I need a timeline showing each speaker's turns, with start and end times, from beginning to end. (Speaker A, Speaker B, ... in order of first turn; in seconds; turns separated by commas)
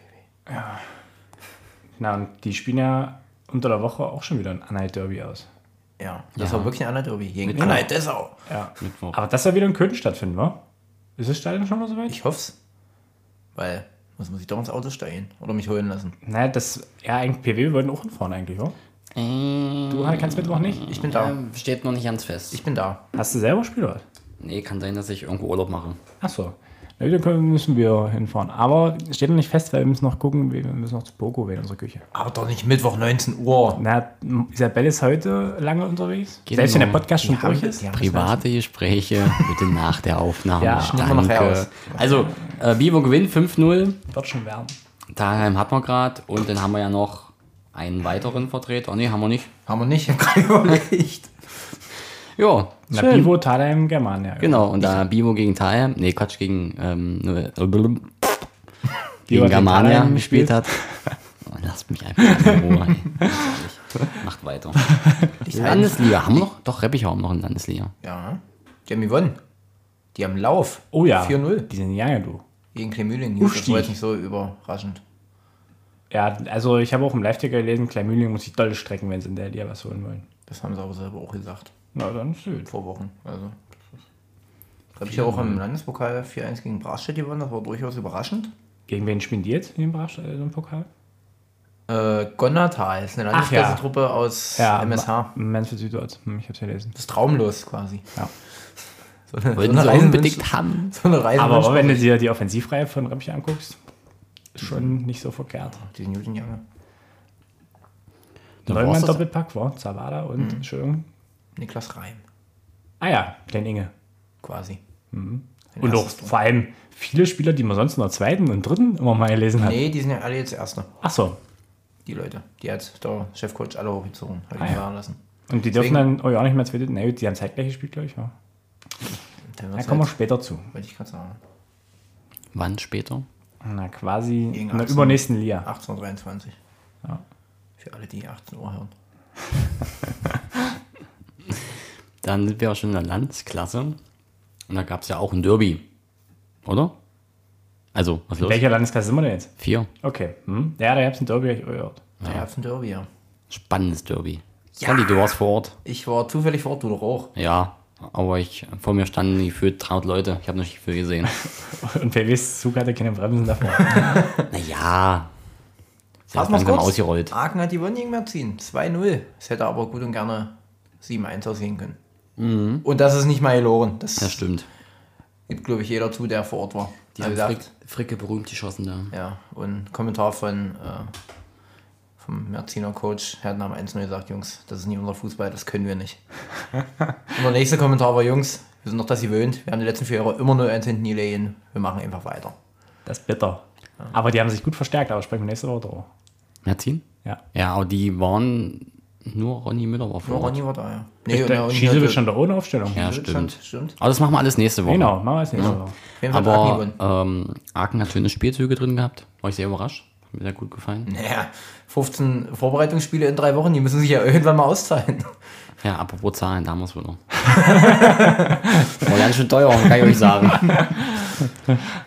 Speaker A: 0.5-0.8, Speaker A: 2.0-5.5, Speaker B: 6.0-8.3, Speaker C: 6.4-6.7, Speaker C: 7.5-7.9, Speaker A: 7.5-7.8, Speaker A: 8.5-10.6, Speaker C: 8.8-9.2, Speaker A: 11.2-12.2, Speaker B: 12.1-12.5, Speaker B: 13.5-16.1, Speaker A: 16.2-18.7, Speaker C: 19.1-22.6, Speaker A: 19.9-20.8, Speaker B: 20.9-21.4, Speaker B: 22.5-23.0, Speaker A: 23.1-24.0, Speaker C: 24.4-26.0, Speaker A: 26.2-32.0, Speaker B: 32.1-33.8, Speaker A: 33.8-37.9, Speaker C: 36.5-37.1, Speaker B: 37.2-38.4, Speaker C: 37.9-44.0, Speaker B: 39.3-39.6, Speaker A: 40.6-41.0, Speaker B: 40.7-42.2, Speaker A: 44.1-44.8, Speaker C: 45.1-49.5, Speaker B: 49.6-51.3, Speaker C: 52.4-53.4, Speaker A: 52.9-54.9, Speaker C: 54.4-58.5, Speaker C: 59.3-60.8, Speaker A: 59.3-61.1, Speaker C: 61.4-64.9, Speaker A: 62.2-62.6, Speaker A: 64.9-65.3, Speaker B: 65.4-66.5, Speaker C: 65.5-67.9, Speaker B: 68.0-69.4, Speaker B: 70.1-71.7, Speaker A: 70.9-72.4, Speaker B: 72.7-75.0, Speaker A: 73.4-73.9, Speaker A: 76.1-80.3, Speaker B: 80.5-81.7, Speaker A: 81.9-82.7, Speaker B: 82.7-83.7, Speaker B: 85.0-88.5, Speaker A: 88.9-90.9, Speaker B: 91.9-95.3, Speaker A: 93.3-93.8, Speaker A: 94.5-96.9, Speaker B: 96.9-98.1, Speaker B: 99.3-102.1, Speaker C: 99.5-100.9, Speaker A: 101.4-103.8, Speaker A: 104.5-105.8, Speaker B: 105.8-106.6, Speaker C: 108.7-109.2, Speaker A: 108.7-111.0, Speaker B: 111.5-112.2, Speaker A: 113.0-113.9, Speaker B: 114.4-114.8, Speaker A: 115.1-119.8, Speaker B: 115.7-116.3, Speaker B: 119.6-120.9, Speaker A: 121.0-121.4, Speaker B: 122.0-125.2, Speaker A: 125.5-128.3, Speaker B: 125.7-126.0, Speaker B: 129.5-130.1, Speaker A: 129.8-130.7, Speaker B: 130.7-131.4, Speaker C: 132.5-133.2, Speaker A: 133.6-135.7, Speaker B: 134.5-136.6, Speaker B: 137.8-138.9, Speaker C: 142.2-144.0, Speaker C: 144.7-145.8, Speaker C: 146.6-146.9, Speaker C: 147.9-148.6, Speaker A: 148.4-152.0, Speaker C: 149.6-149.9, Speaker B: 152.2-153.1, Speaker C: 153.5-155.8, Speaker B: 154.8-155.3, Speaker B: 155.8-157.3, Speaker C: 157.3-161.3, Speaker A: 161.5-164.3, Speaker B: 163.9-164.4, Speaker C: 164.5-165.3, Speaker C: 166.3-167.3, Speaker B: 166.3-172.0, Speaker C: 172.4-172.8, Speaker B: 172.8-174.4, Speaker C: 174.2-174.7, Speaker B: 175.5-177.7, Speaker C: 177.2-179.1, Speaker B: 179.1-181.1, Speaker B: 182.2-186.2, Speaker B: 187.3-192.5, Speaker A: 193.1-196.1, Speaker C: 196.6-197.0, Speaker C: 197.5-200.6, Speaker B: 200.2-202.2, Speaker A: 201.3-203.0, Speaker B: 202.9-203.9, Speaker C: 202.9-205.8, Speaker A: 204.8-205.9, Speaker B: 205.5-206.9, Speaker C: 206.3-211.1, Speaker B: 211.1-215.4, Speaker C: 215.8-217.2, Speaker B: 217.5-218.7, Speaker A: 217.5-218.4, Speaker C: 218.9-220.9